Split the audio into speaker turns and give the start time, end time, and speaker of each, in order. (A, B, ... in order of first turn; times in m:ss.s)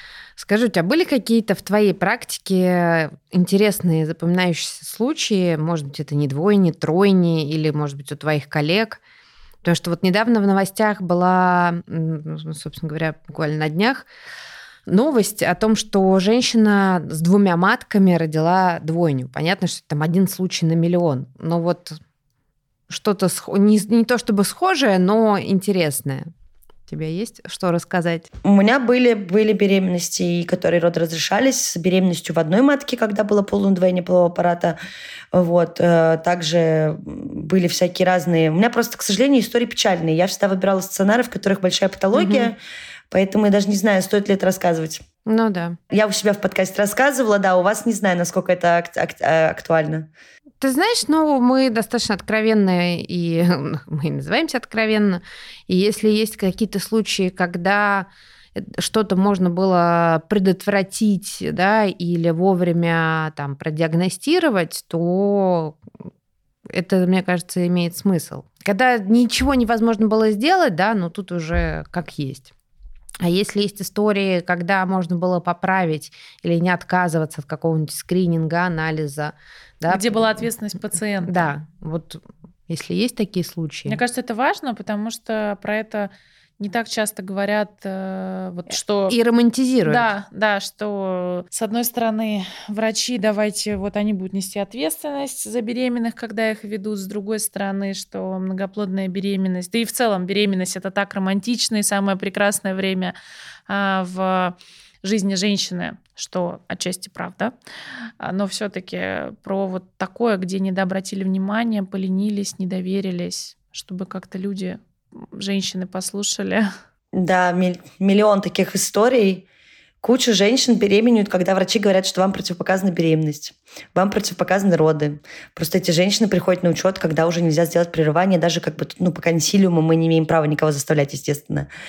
0:00.4-0:09.0 A
0:09.6-0:14.1 A
0:14.9-0:22.0 A
0:22.9-0:26.3 A
0:26.9-0:28.3 A
0:28.4-0:34.8 B
0:35.3-0:42.6 B
0:42.1-0:42.5 A
0:43.1-0:45.0 B
0:45.2-0:45.8 A
0:45.9-0:50.1 B
0:50.6-1:05.8 A
1:06.7-1:12.5 A
1:13.2-1:20.4 A
1:19.9-1:21.5 C
1:21.3-1:24.0 A
1:23.9-1:29.2 C
1:29.1-1:30.1 A
1:29.8-1:43.1 C
1:43.7-1:47.5 C
1:48.2-1:56.7 C
1:57.1-1:59.4 B
2:00.0-2:11.7 B